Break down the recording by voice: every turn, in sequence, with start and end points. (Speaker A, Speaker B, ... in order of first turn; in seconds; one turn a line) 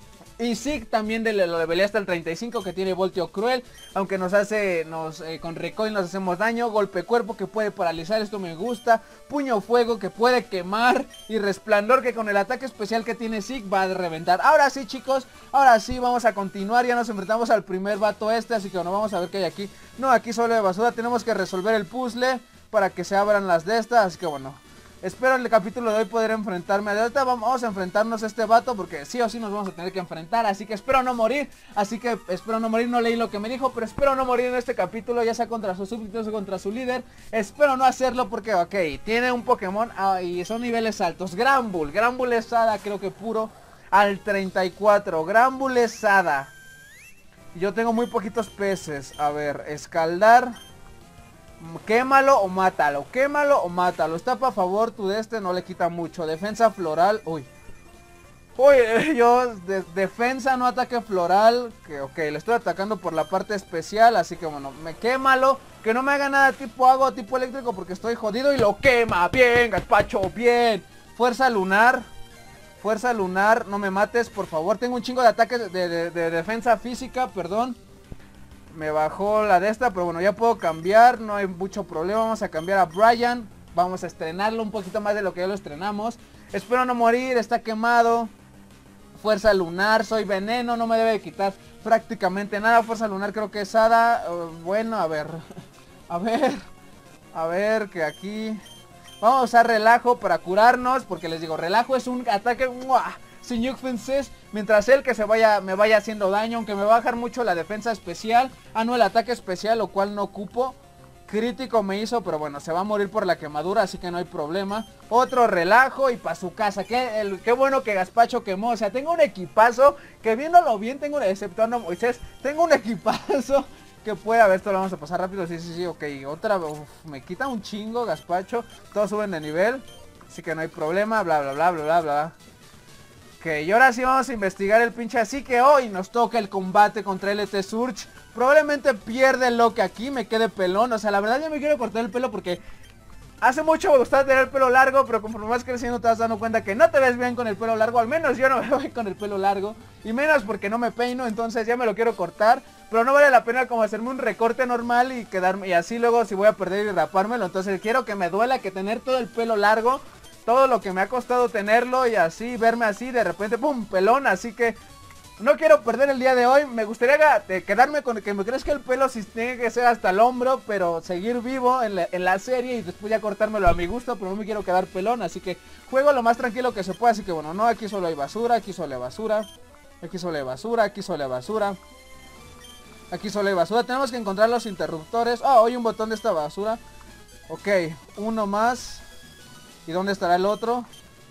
Speaker A: 0.4-46.5
Speaker A: 47.5-50.5
Speaker A: 51.6-57.5
Speaker A: 58.6-72.1
Speaker A: 72.8-77.8
Speaker A: 78.7-88.3
Speaker A: 89.1-95.4
Speaker A: 96.1-96.6
Speaker A: 97.3-98.6
Speaker A: 99.2-132.3
Speaker A: 133.4-142.6
Speaker A: 143.4-164.8
Speaker A: 165.4-179.5
Speaker A: 180.0-181.8
Speaker A: 183.1-186.8
Speaker A: 187.5-189.0
Speaker A: 189.8-190.9